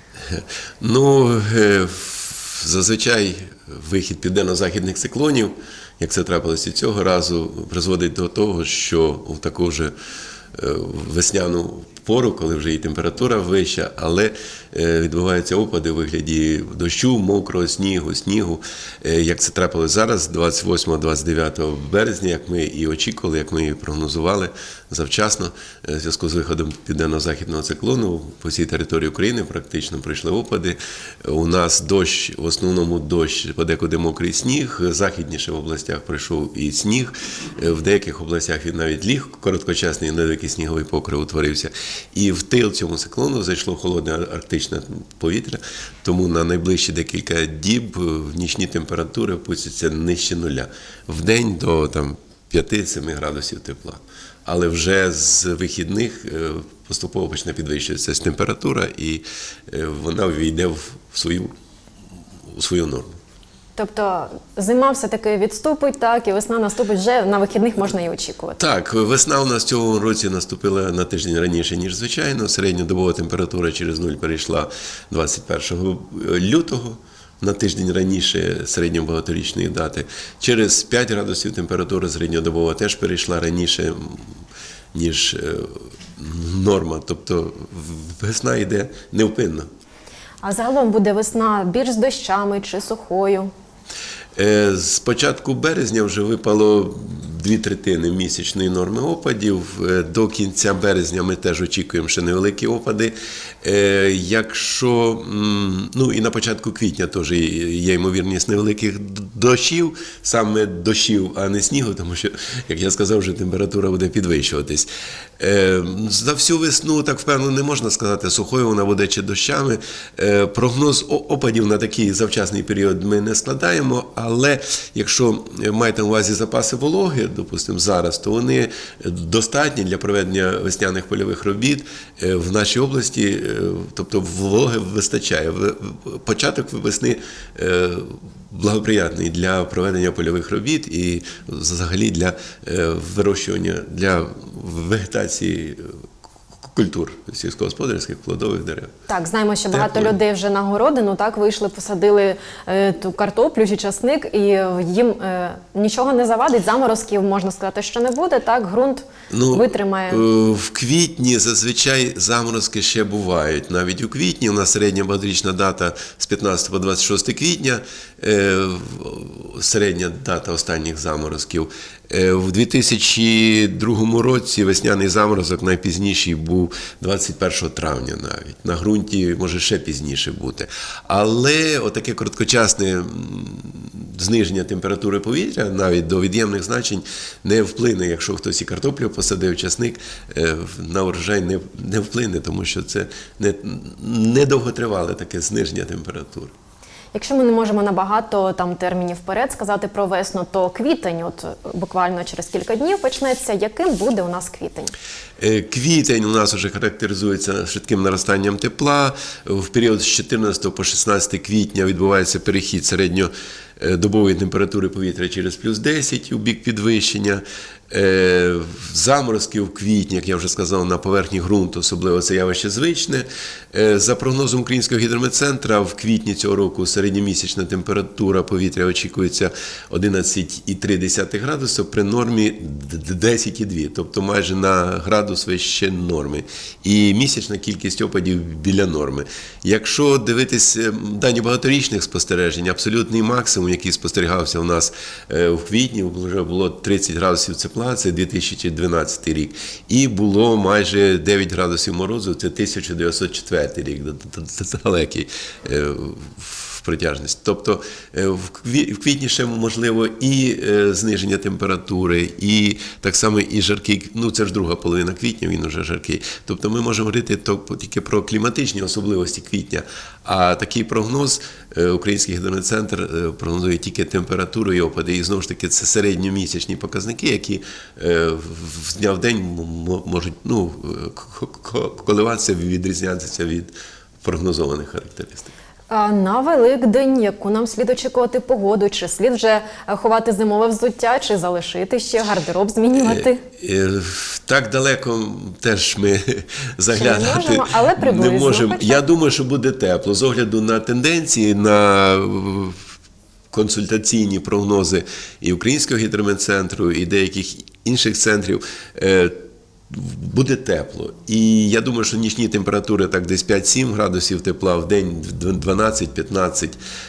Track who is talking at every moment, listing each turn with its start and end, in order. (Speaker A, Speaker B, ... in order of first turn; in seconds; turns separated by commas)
Speaker A: 0.3-9.9, Speaker A: 10.5-61.5, Speaker A: 62.5-63.2, Speaker B: 63.8-68.6, Speaker A: 68.6-84.4, Speaker A: 84.9-89.7, Speaker B: 90.4-93.5, Speaker A: 94.3-114.9, Speaker A: 115.4-145.9, Speaker A: 146.6-148.9, Speaker B: 149.1-160.2, Speaker A: 149.7-150.2, Speaker A: 159.3-196.5, Speaker B: 197.1-204.9, Speaker A: 205.4-285.5, Speaker B: 285.9-293.4, Speaker A: 292.9-302.8, Speaker B: 296.9-299.0, Speaker A: 303.5-316.8